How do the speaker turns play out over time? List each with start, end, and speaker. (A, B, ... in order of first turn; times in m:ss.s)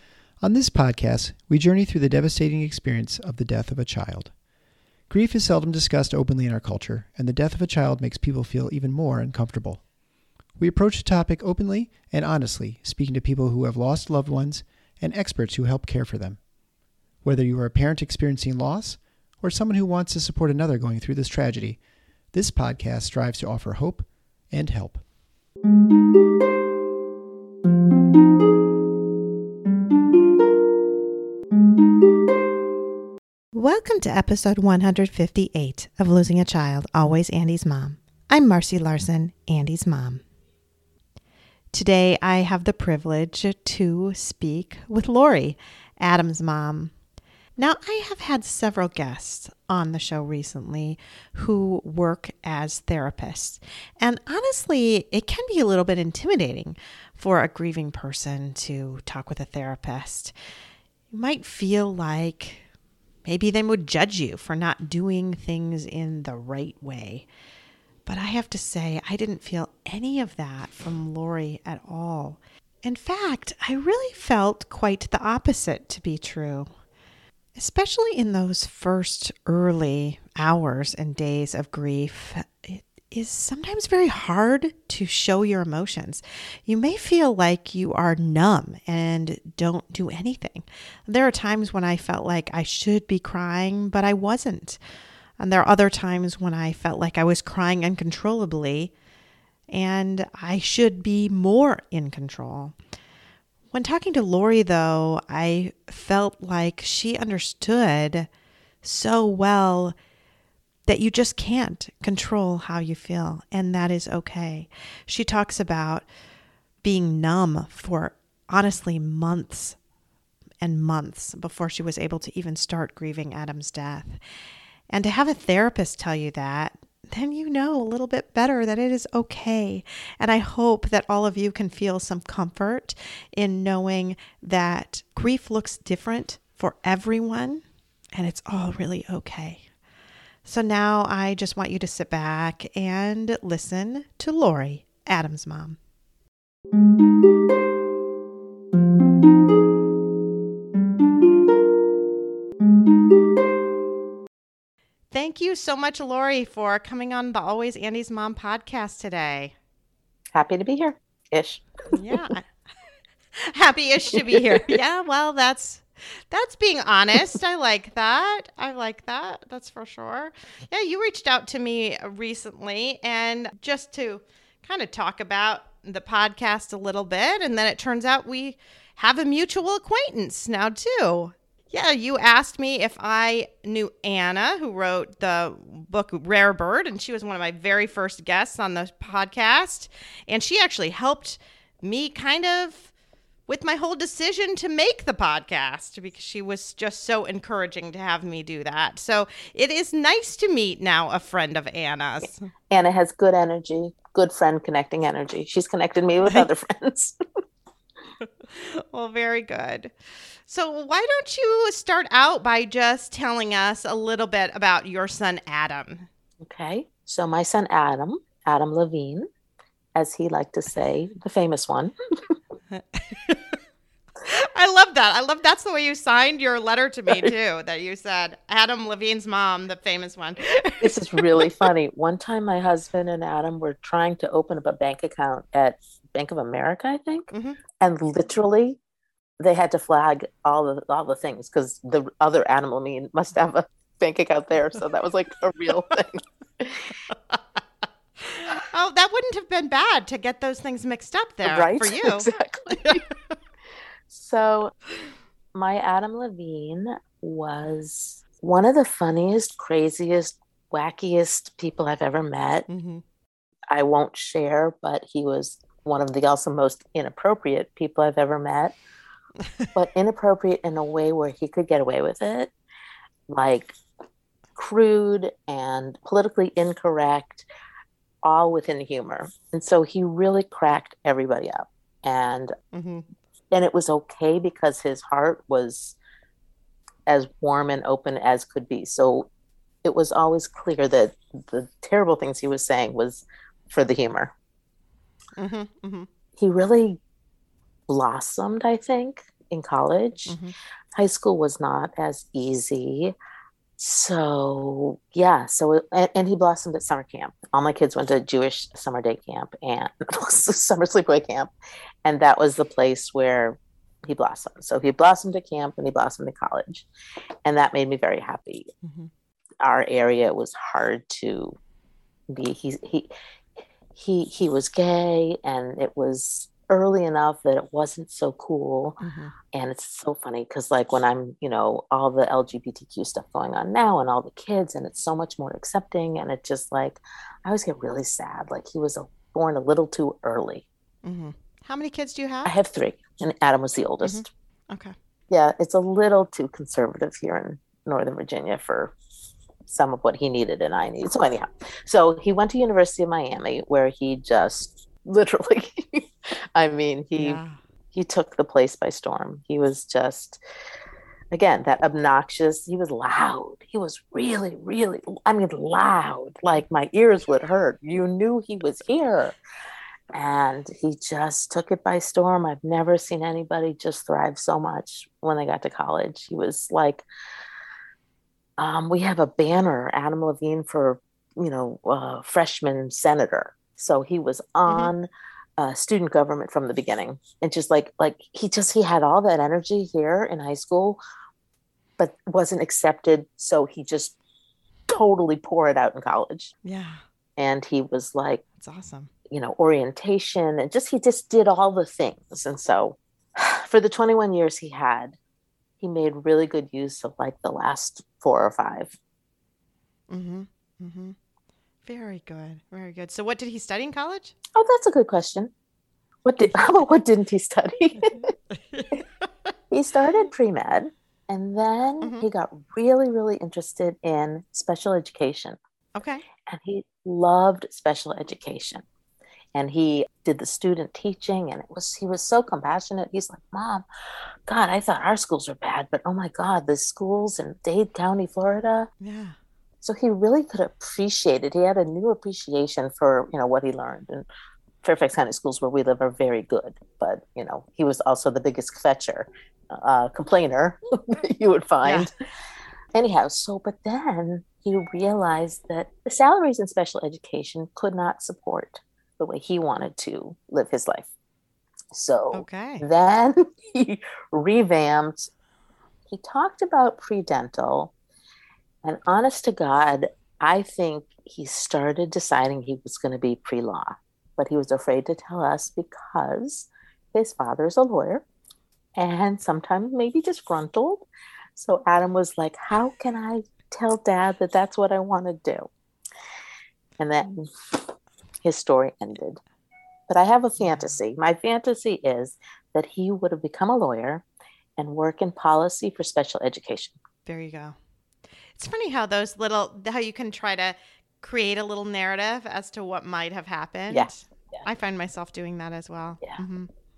0:00.4-0:04.4 A
0:05.1-0:09.9 A
0:10.6-0:16.4 A
0:17.2-0:25.0 A
0:33.5-0:40.2 B
0:41.7-0:46.9 B
0:47.6-1:00.3 B
1:01.1-1:02.6 B
1:03.2-1:07.3 B
1:08.1-1:16.7 B
1:17.6-1:34.8 B
1:35.4-1:38.9 B
1:39.7-1:42.8 B
1:43.7-1:48.3 B
1:48.8-1:50.0 B
1:50.9-1:56.1 B
1:56.8-1:59.8 B
2:00.6-2:04.2 B
2:04.9-2:17.6 B
2:18.2-2:19.7 B
2:20.4-2:25.8 B
2:35.1-2:39.5 B
2:40.3-2:41.6 C
2:41.9-2:42.6 B
2:43.4-3:12.9 B
2:44.3-2:44.6 C
3:13.5-3:22.5 B
3:22.7-3:27.2 C
3:28.4-3:29.9 B
3:30.5-3:36.1 B
3:36.4-3:39.3 C
3:40.0-3:41.9 C
3:42.7-3:43.6 B
3:44.2-3:51.7 B
3:50.8-3:58.8 C
3:57.3-3:57.6 B
3:59.4-4:06.9 C
4:08.2-4:13.1 B
4:11.4-4:13.0 C
4:14.1-4:14.7 C
4:15.5-4:22.7 C
4:22.7-4:23.0 B
4:23.7-4:28.8 C
4:29.8-4:32.5 C
4:33.3-4:33.8 C
4:34.6-4:37.5 C
4:38.2-4:42.5 C
4:42.7-4:43.1 B
4:43.5-4:46.0 C
4:47.1-4:49.3 C
4:49.8-4:54.3 C
4:55.4-4:56.1 B
4:56.4-4:57.0 C
4:57.9-5:00.4 C
5:00.3-5:00.5 B
5:01.0-5:03.2 C
5:03.8-5:11.5 C
5:12.0-5:16.9 C
5:17.4-5:18.7 C
5:18.8-5:19.1 B
5:19.6-5:21.6 C
5:22.3-5:23.1 C
5:23.9-5:29.0 C
5:29.0-5:29.4 B
5:29.5-5:40.7 C
5:41.0-5:42.5 B
5:42.4-5:44.3 C
5:44.0-5:45.0 B
5:45.3-5:48.9 C
5:49.7-5:57.4 C
5:57.2-5:57.6 B
5:57.9-6:00.4 C
6:01.3-6:09.4 C
6:10.1-6:17.1 C
6:18.6-6:31.0 C
6:24.7-6:24.9 B
6:32.0-6:34.2 C
6:34.9-6:36.5 C
6:36.6-6:37.0 B
6:37.4-6:38.4 C
6:38.6-6:39.1 B
6:39.3-6:45.2 C
6:45.8-6:49.0 C
6:50.1-6:51.2 B
6:51.8-6:54.4 B
6:54.6-6:55.5 C
6:56.2-6:58.2 C
6:58.0-6:59.2 B
6:59.7-7:05.6 C
7:02.0-7:02.3 B
7:06.0-7:06.2 B
7:06.4-7:08.8 C
7:09.6-7:13.8 C
7:14.5-7:18.9 C
7:19.0-7:19.4 B
7:19.8-7:24.3 C
7:24.8-7:32.1 C
7:31.8-7:32.1 B
7:32.9-7:41.1 C
7:41.9-7:45.3 C
7:42.3-7:42.8 B
7:46.1-7:47.9 C
7:48.8-7:58.2 C
7:59.0-8:05.7 C
8:07.0-8:09.4 C
8:10.1-8:14.2 C
8:10.6-8:11.0 B
8:14.8-8:17.0 C
8:17.2-8:17.8 B
8:18.6-8:26.7 B
8:23.9-8:24.6 C